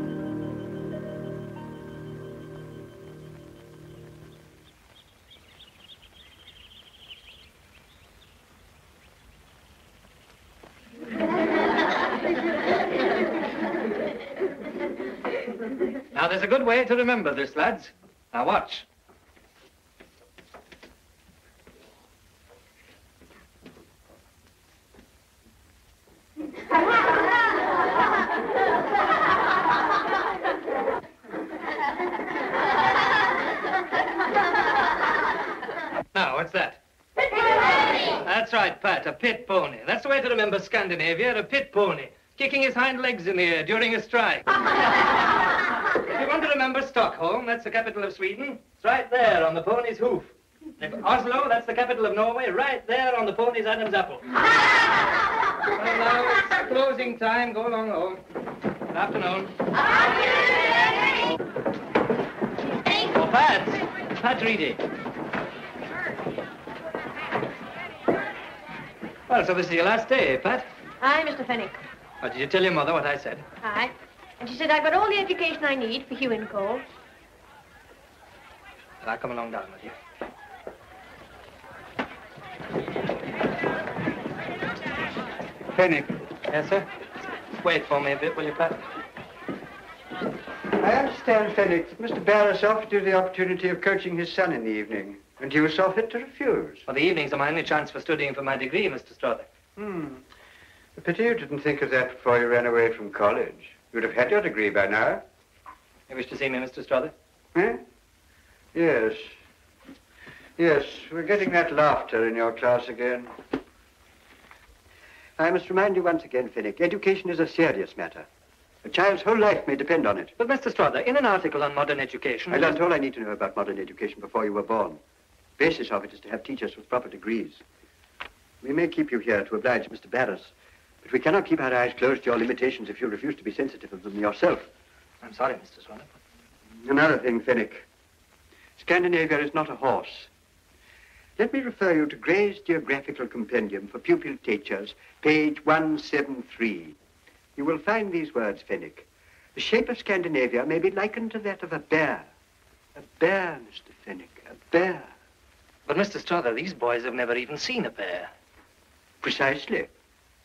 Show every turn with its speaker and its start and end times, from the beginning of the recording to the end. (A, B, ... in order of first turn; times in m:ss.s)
0:16.1-0:18.8 A
0:36.1-0:36.8 A
0:38.2-0:44.5 A
0:46.1-0:54.4 A
0:55.7-0:58.2 A
0:58.9-0:59.5 A
1:02.9-1:04.8 A
1:09.3-1:10.7 A
1:11.0-1:11.8 B
1:12.2-1:13.4 A
1:13.6-1:16.8 B
1:19.0-1:20.0 A
1:25.7-1:26.2 C
1:26.5-1:26.9 A
1:27.6-1:28.8 A
1:30.8-1:36.8 C
1:36.9-1:39.5 A
1:39.8-1:40.2 C
1:41.0-1:45.2 C
1:46.1-1:47.1 A
1:47.6-1:47.8 C
1:48.7-1:49.3 C
1:50.6-1:53.3 C
1:55.4-1:58.3 C
1:58.8-2:00.3 C
2:00.4-2:02.8 A
2:02.5-2:05.0 C
2:05.6-2:07.6 C
2:08.6-2:10.5 C
2:11.0-2:14.7 C
2:15.2-2:16.1 A
2:16.8-2:17.9 C
2:18.8-2:20.3 C
2:21.4-2:27.0 C
2:27.6-2:32.3 C
2:33.0-2:35.1 C
2:35.9-2:38.3 A
2:39.2-2:39.9 C